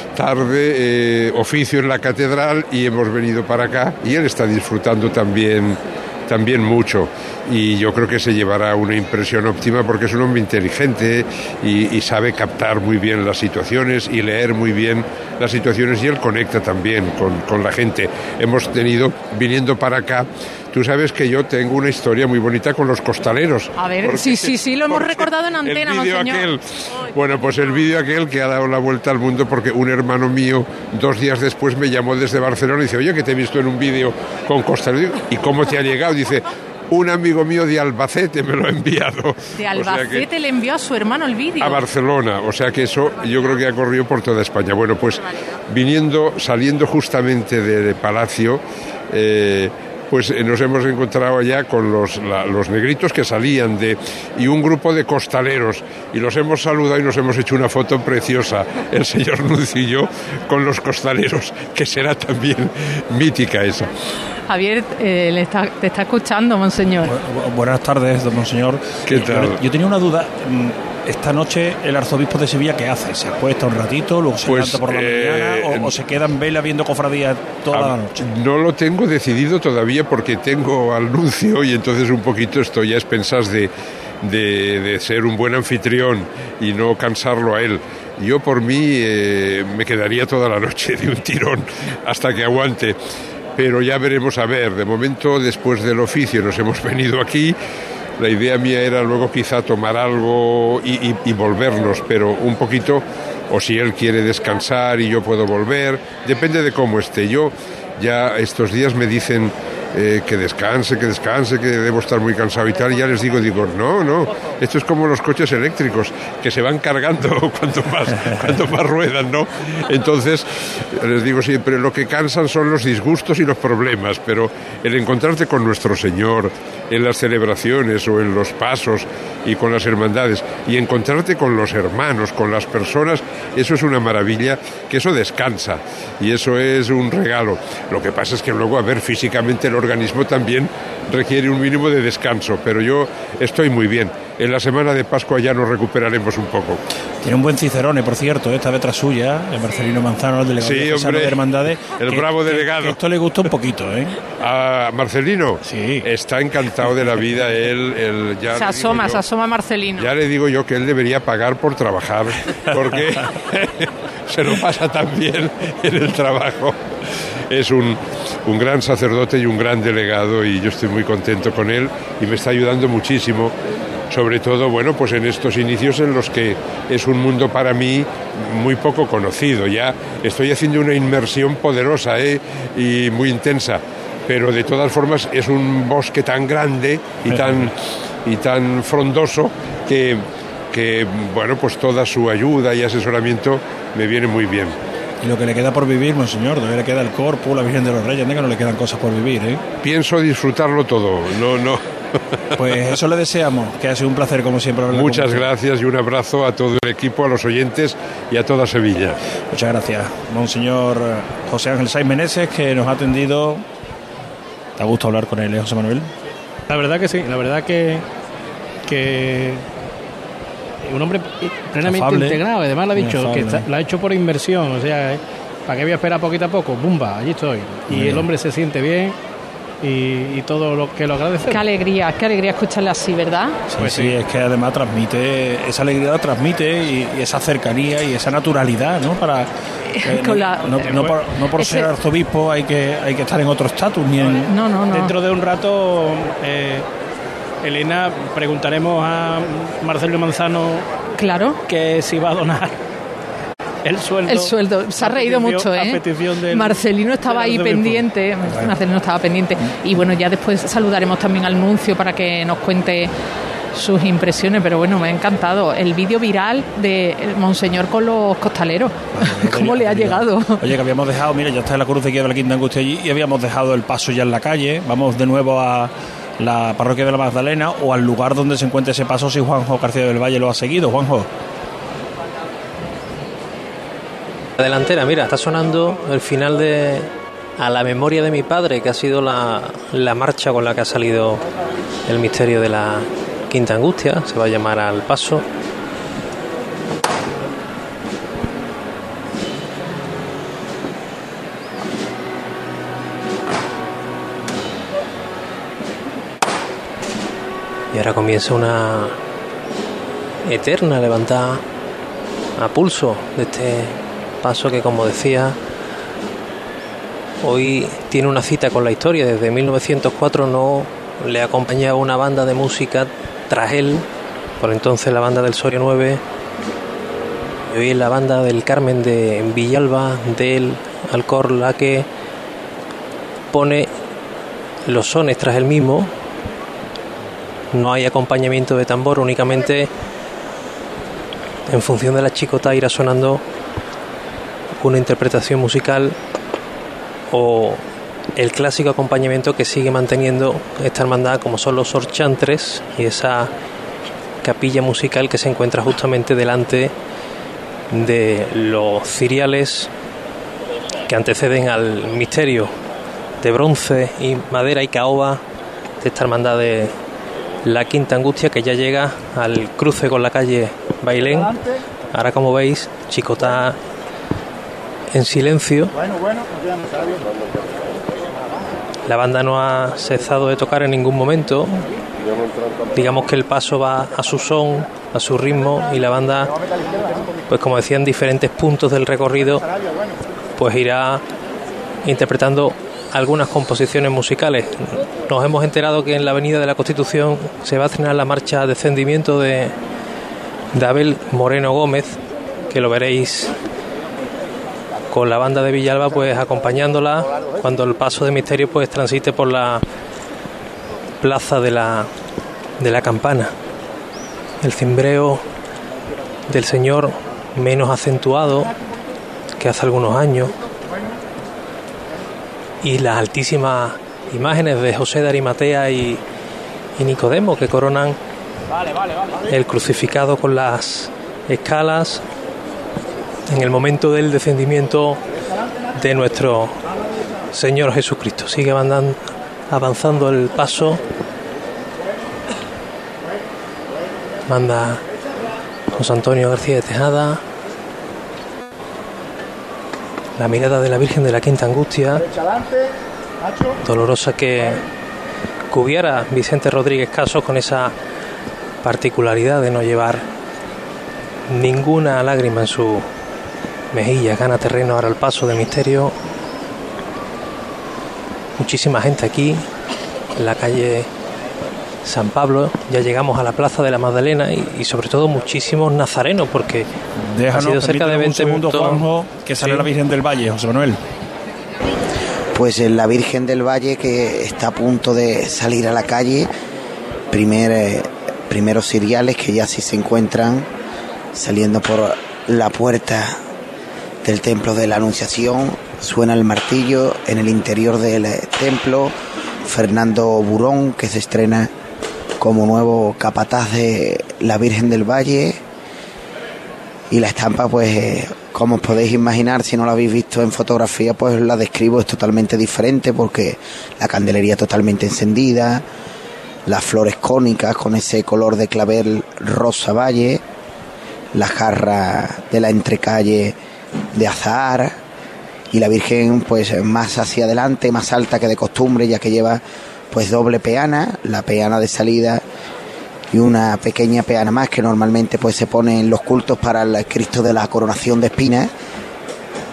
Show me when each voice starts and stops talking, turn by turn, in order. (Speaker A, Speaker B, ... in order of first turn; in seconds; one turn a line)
Speaker A: 0.1-40.3
Speaker B: 23.8-26.4
Speaker B: 39.5-41.9
Speaker A: 41.6-63.9
Speaker B: 64.5-67.1
Speaker C: 67.1-78.2
Speaker A: 69.1-69.6
Speaker A: 74.4-75.9
Speaker A: 77.7-83.7
Speaker A: 84.2-93.0
Speaker A: 93.6-97.5
Speaker A: 98.2-146.8
Speaker C: 147.2-154.2
Speaker A: 150.6-153.0
Speaker A: 154.3-159.2
Speaker C: 155.7-156.1
Speaker B: 158.5-160.1
Speaker A: 160.0-166.8
Speaker A: 167.5-173.5
Speaker A: 174.1-194.8
Speaker C: 187.3-187.7
Speaker C: 195.2-199.6
Speaker A: 199.8-201.8
Speaker C: 202.6-205.5
Speaker A: 204.9-209.2
Speaker C: 209.5-213.6
Speaker C: 214.8-216.1
Speaker D: 216.7-218.0
Speaker D: 218.9-219.6
Speaker D: 220.8-229.2
Speaker C: 221.8-223.7
Speaker C: 227.9-228.3
Speaker D: 229.8-231.6
Speaker B: 231.5-233.6
Speaker C: 233.7-239.5
Speaker D: 233.8-234.2
Speaker B: 239.9-241.9
Speaker C: 240.0-244.5
Speaker B: 244.5-245.1
Speaker D: 244.9-246.9
Speaker D: 247.6-250.9
Speaker B: 251.2-251.6
Speaker D: 251.6-252.7
Speaker D: 253.8-258.7
Speaker B: 254.3-263.1
Speaker B: 263.7-270.6
Speaker C: 269.1-281.3
Speaker E: 284.6-291.4
Speaker E: 292.1-295.4
Speaker E: 307.9-309.2
Speaker E: 310.4-311.6
Speaker E: 312.6-315.6
Speaker E: 317.4-324.1
Speaker E: 324.6-326.2
Speaker E: 327.7-332.1
Speaker E: 333.5-333.9
Speaker E: 334.9-336.1
Speaker E: 337.7-339.9
Speaker E: 341.7-343.4
Speaker E: 344.8-346.1
Speaker E: 347.3-347.8
Speaker E: 348.4-353.5
Speaker E: 354.4-356.9
Speaker E: 357.9-359.9
Speaker E: 361.1-362.7
Speaker E: 363.4-365.4
Speaker E: 366.0-366.9
Speaker E: 367.6-371.6
Speaker E: 372.1-373.8
Speaker E: 375.1-375.9
Speaker E: 379.1-381.9
Speaker E: 382.9-386.6
Speaker E: 387.5-389.6
Speaker E: 390.6-391.2
Speaker E: 392.0-399.8
Speaker E: 400.7-403.5
Speaker E: 405.1-409.8
Speaker E: 411.2-412.1
Speaker E: 412.8-413.5
Speaker E: 414.6-415.4
Speaker E: 416.5-418.7
Speaker E: 419.6-420.5
Speaker E: 422.8-426.2
Speaker E: 427.0-428.2
Speaker E: 429.5-432.2
Speaker E: 433.5-435.2
Speaker E: 435.9-436.8
Speaker E: 437.5-441.0
Speaker E: 444.4-445.0
Speaker E: 445.9-447.4
Speaker E: 450.4-452.3
Speaker E: 453.8-454.8
Speaker E: 455.7-457.9
Speaker E: 458.8-460.2
Speaker E: 461.5-463.1
Speaker E: 463.9-466.1
Speaker E: 468.6-469.6
Speaker E: 470.4-471.1
Speaker E: 472.0-476.9
Speaker C: 477.2-481.0
Speaker E: 477.5-479.0
Speaker E: 479.6-479.9
Speaker F: 482.5-486.5
Speaker F: 487.3-490.7
Speaker F: 491.3-493.4
Speaker F: 494.2-499.1
Speaker F: 499.6-501.7
Speaker F: 502.4-505.6
Speaker F: 507.1-515.9
Speaker F: 516.6-520.4
Speaker F: 521.3-523.6
Speaker F: 524.1-525.0
Speaker F: 525.7-532.4
Speaker F: 533.3-538.7